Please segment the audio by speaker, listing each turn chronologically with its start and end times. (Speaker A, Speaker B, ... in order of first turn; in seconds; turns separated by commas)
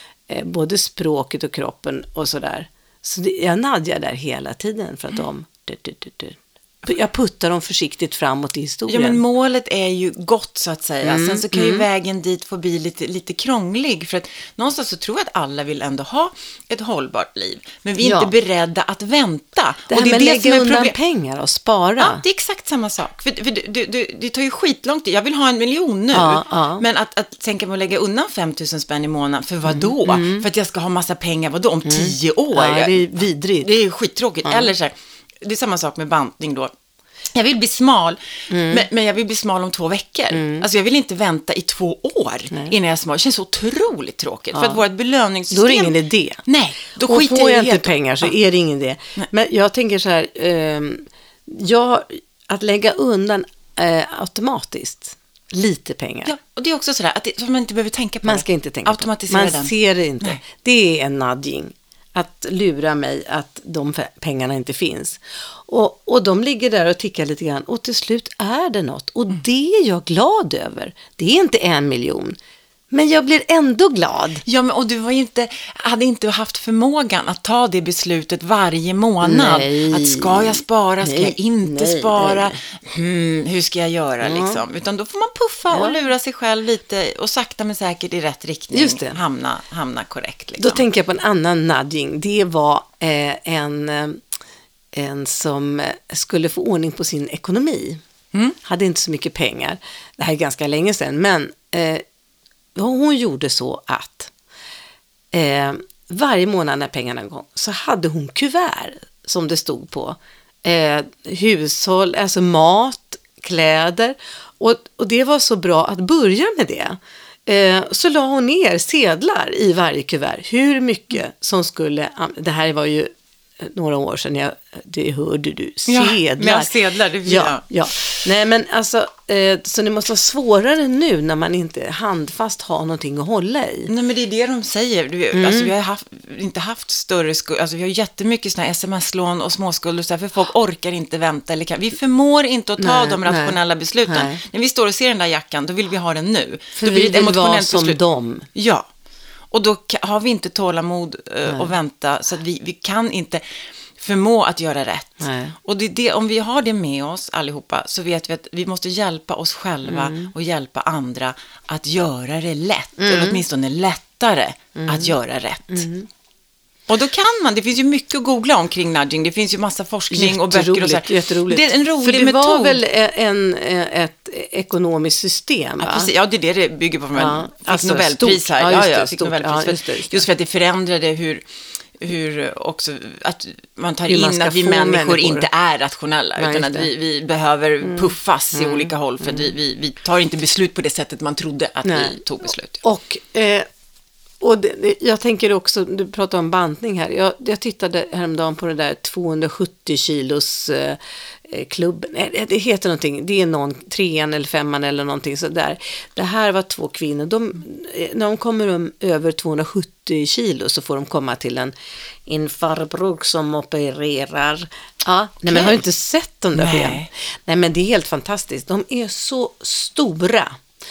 Speaker A: 0.3-9.2, Speaker B: 8.9-20.9, Speaker A: 11.0-11.9, Speaker A: 18.0-18.3, Speaker A: 19.9-22.2, Speaker B: 22.0-36.7, Speaker A: 26.1-26.8, Speaker A: 29.7-30.4, Speaker A: 31.8-33.7, Speaker A: 34.4-34.7, Speaker B: 37.3-48.3, Speaker A: 38.5-38.9, Speaker A: 40.3-40.6, Speaker A: 44.5-44.8, Speaker A: 45.5-46.4, Speaker A: 47.0-56.3, Speaker B: 56.2-60.4, Speaker A: 58.2-72.3, Speaker A: 72.9-74.4, Speaker B: 74.4-90.8, Speaker A: 79.2-82.6, Speaker A: 84.2-84.6, Speaker A: 85.7-86.0, Speaker A: 88.7-89.2, Speaker A: 90.6-94.2, Speaker A: 94.9-98.0, Speaker A: 98.6-102.0, Speaker A: 102.7-104.3, Speaker A: 105.3-126.7, Speaker B: 125.9-128.2, Speaker A: 127.2-133.9, Speaker B: 133.9-148.0, Speaker A: 135.3-135.7, Speaker A: 142.8-144.4, Speaker A: 146.8-148.5, Speaker B: 148.5-148.9, Speaker B: 149.5-165.9, Speaker A: 151.5-151.7, Speaker A: 155.2-155.5, Speaker A: 159.9-160.3, Speaker A: 163.0-163.4, Speaker A: 164.7-165.1, Speaker A: 165.7-166.1, Speaker B: 166.9-172.8, Speaker A: 170.1-176.1, Speaker B: 175.8-192.8, Speaker A: 177.1-180.2, Speaker A: 184.1-185.5, Speaker A: 186.4-186.9, Speaker A: 187.8-189.5, Speaker A: 191.8-192.2, Speaker A: 192.8-193.7, Speaker A: 194.4-211.7, Speaker A: 212.2-220.6, Speaker B: 215.5-215.8, Speaker B: 216.5-217.1